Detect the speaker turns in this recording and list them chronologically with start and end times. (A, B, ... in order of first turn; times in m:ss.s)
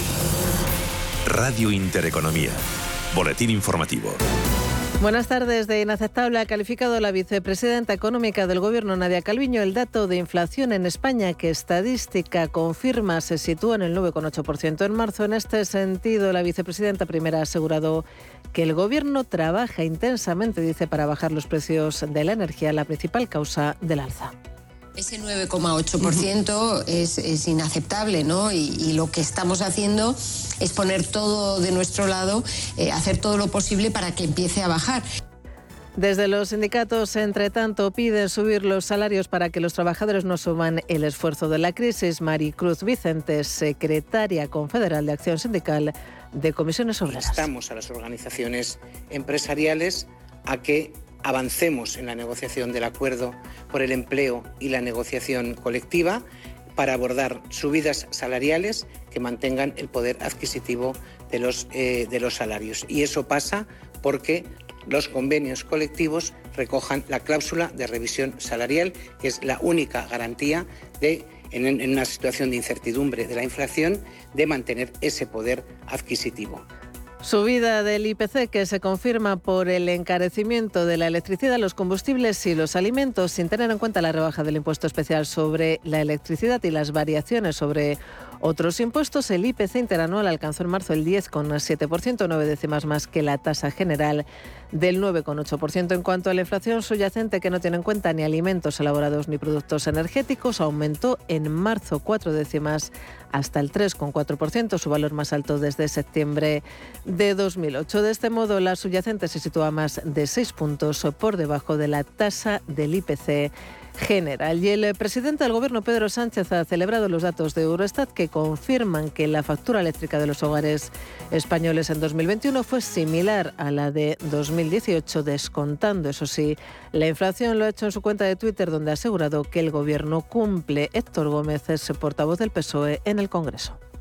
0:01.2-0:02.6 A
0:03.1-0:04.2 A
0:05.0-0:24.3 B
0:25.0-0:30.1 C
0:30.6-0:35.0 C
0:36.0-0:47.5 B
0:47.1-0:56.2 D
0:56.8-1:16.6 D
1:17.2-2:13.8 B